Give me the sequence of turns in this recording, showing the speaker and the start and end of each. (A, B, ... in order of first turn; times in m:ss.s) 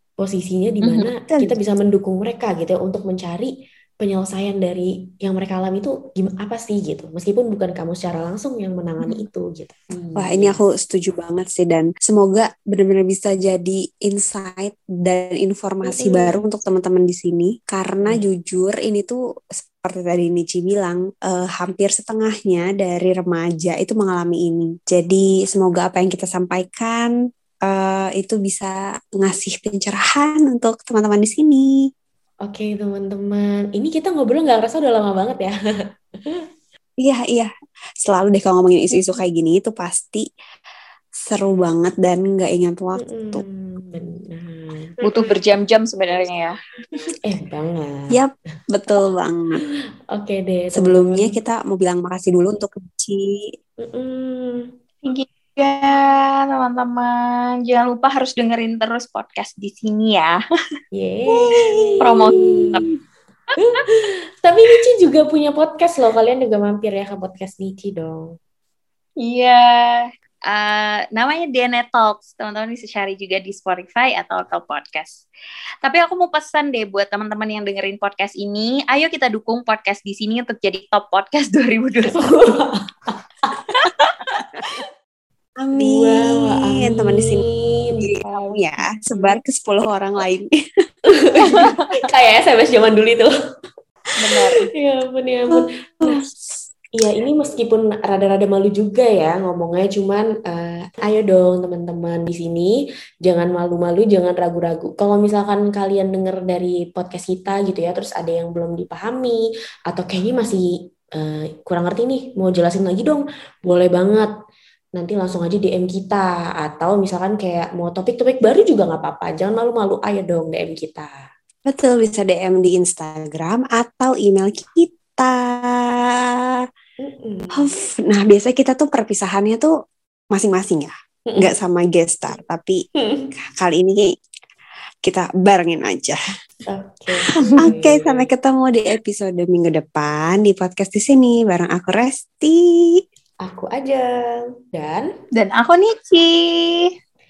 0:00.2-0:10.6 A
0:01.3-0:01.6 B
0:10.2-0:27.1 B
0:15.9-0:16.5 A
0:27.6-0:31.7 B
0:32.4-0:35.5 A
0:37.0-0:37.5 B
0:38.0-0:40.3 B
0:41.2-0:43.4 B
0:43.0-0:44.9 A
0:45.0-0:46.6 C
0:47.2-0:48.2 A
0:48.1-0:49.6 B
0:50.1-0:51.4 A
0:50.7-0:53.5 B
0:53.8-0:54.7 A
0:55.0-1:00.4 C
1:00.9-1:02.8 A
1:01.5-1:02.7 B
1:02.0-1:02.9 C
1:03.6-1:08.4 A
1:09.2-1:15.2 C
1:15.8-1:22.3 C
1:22.1-1:24.4 A
1:25.6-1:27.4 B
1:25.7-1:28.1 A
1:28.0-1:30.5 B
1:28.2-1:28.6 C
1:31.2-1:33.3 A
1:31.4-1:31.9 C
1:34.2-1:34.6 C
1:34.6-1:36.3 A
1:35.5-1:36.2 B
1:37.0-1:54.3 A
1:55.0-2:01.1 A
2:01.7-2:06.5 B
2:07.0-2:07.7 A
2:07.5-2:09.7 B
2:10.3-2:12.8 B
2:11.3-2:11.5 A
2:13.0-2:13.3 A
2:13.4-2:14.1 B
2:15.0-2:16.2 B
2:16.7-2:18.3 A
2:17.4-2:23.0 B
2:23.4-2:25.1 A
2:25.3-2:26.9 C